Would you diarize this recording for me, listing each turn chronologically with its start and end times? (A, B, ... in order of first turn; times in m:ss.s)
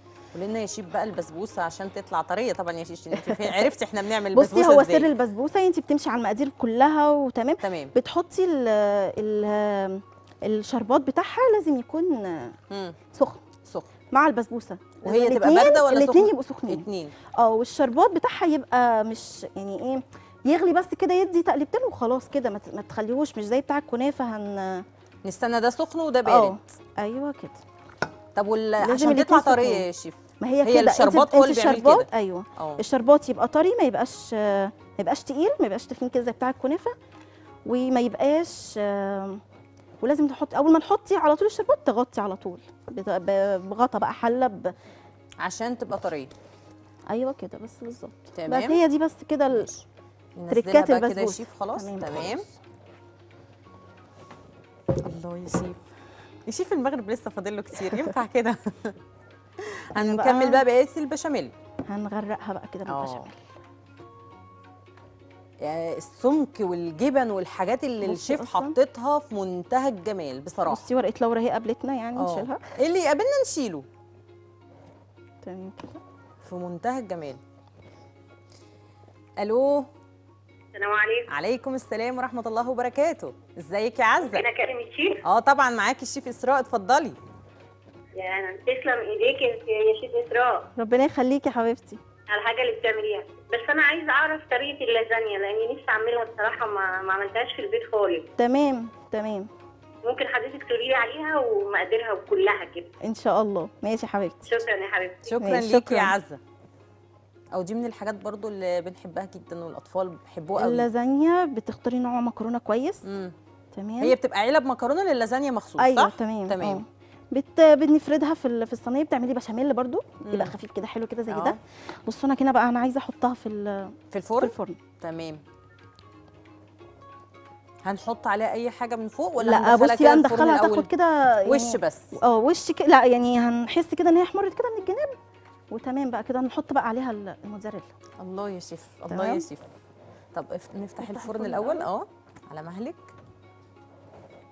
0:00.3-0:05.1 A
0:03.2-0:03.7 B
0:04.3-0:12.6 B
0:07.6-0:07.9 A
0:12.7-0:13.0 A
0:13.1-0:13.4 B
0:14.1-0:16.9 B
0:15.0-0:17.1 A
0:17.4-0:24.8 B
0:25.2-0:26.6 A
0:26.3-0:27.6 B
0:28.4-0:32.8 A
0:28.8-0:29.8 B
0:30.4-0:36.9 B
0:37.7-0:39.4 B
0:40.0-0:44.7 B
0:45.4-0:46.3 A
0:47.1-0:49.7 B
0:48.4-0:48.8 A
0:49.5-0:49.8 A
0:50.4-0:52.4 A
0:50.5-0:52.6 B
0:55.0-0:55.8 A
0:56.5-0:59.0 A
0:59.6-1:01.5 A
1:00.0-1:00.6 B
1:01.9-1:03.4 B
1:02.9-1:03.3 A
1:05.6-1:10.8 A
1:08.0-1:08.8 B
1:10.7-1:12.6 B
1:12.2-1:13.8 A
1:15.4-1:16.0 B
1:16.4-1:17.4 A
1:19.4-1:19.9 A
1:20.7-1:21.3 C
1:21.3-1:24.4 A
1:24.2-1:25.2 C
1:25.2-1:27.2 A
1:28.2-1:30.7 C
1:30.8-1:32.0 B
1:32.3-1:38.2 C
1:38.4-1:39.5 B
1:40.0-1:42.9 C
1:43.0-1:44.5 B
1:44.5-1:45.4 C
1:45.2-1:46.4 A
1:45.4-1:46.2 B
1:47.5-1:50.9 A
1:50.6-1:53.0 B
1:53.0-1:53.3 A
1:53.7-1:54.2 B
1:54.0-1:56.8 A
1:55.8-2:04.8 B
2:00.2-2:00.5 A
2:01.3-2:01.6 A
2:04.1-2:05.4 A
2:07.8-2:10.9 A
2:09.4-2:15.2 B
2:11.4-2:12.2 A
2:15.7-2:17.9 B
2:18.2-2:19.6 A
2:19.1-2:19.4 B
2:20.3-2:23.1 A
2:21.0-2:21.9 B